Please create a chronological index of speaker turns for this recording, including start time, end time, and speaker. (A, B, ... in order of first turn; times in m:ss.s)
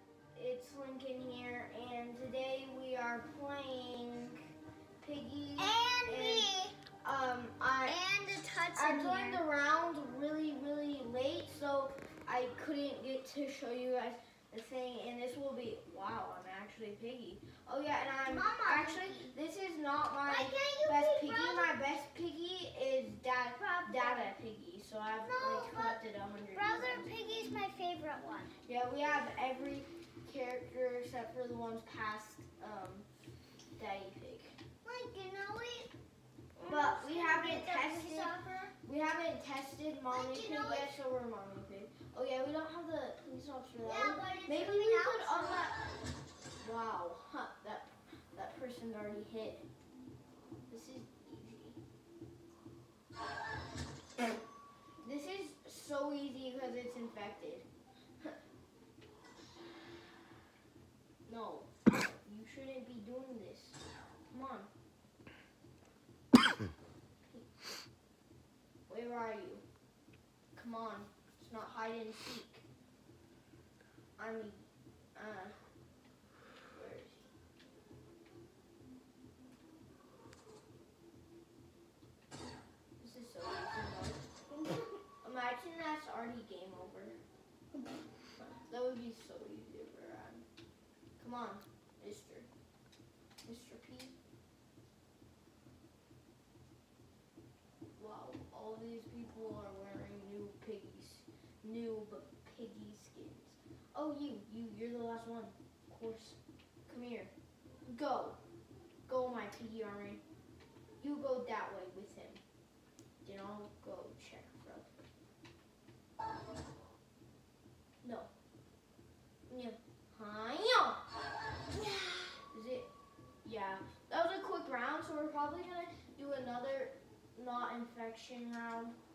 0:00.3-0:04.5 A
0:05.0-0:06.5 A
0:05.6-0:06.7 B
0:07.0-0:08.0 A
0:07.8-0:09.4 B
0:08.7-0:27.1 A
0:18.2-0:19.3 B
0:20.2-0:21.8 B
0:23.6-0:24.3 B
0:25.2-0:26.0 B
0:26.5-0:28.5 B
0:28.6-0:33.1 A
0:33.8-0:34.6 A
0:34.8-0:35.9 B
0:36.6-0:38.7 B
0:36.7-0:45.8 A
0:40.1-0:40.9 B
0:43.8-0:45.7 B
0:46.6-0:49.7 A
0:50.7-0:51.8 A
0:55.0-0:57.7 A
1:01.2-1:04.7 A
1:07.2-1:07.6 A
1:08.9-1:09.6 A
1:10.5-1:12.6 A
1:14.2-1:15.6 A
1:16.7-1:17.3 A
1:23.0-1:24.3 A
1:24.5-1:24.8 B
1:25.2-1:27.2 A
1:28.4-1:30.4 A
1:31.2-1:32.5 A
1:33.4-1:34.1 A
1:38.0-1:47.3 A
1:47.9-1:48.4 A
1:49.1-1:50.2 A
1:51.0-1:52.4 A
1:53.2-1:54.9 A
1:58.0-1:58.3 A
1:59.5-2:01.0 A
2:01.7-2:02.9 A
2:03.4-2:09.0 A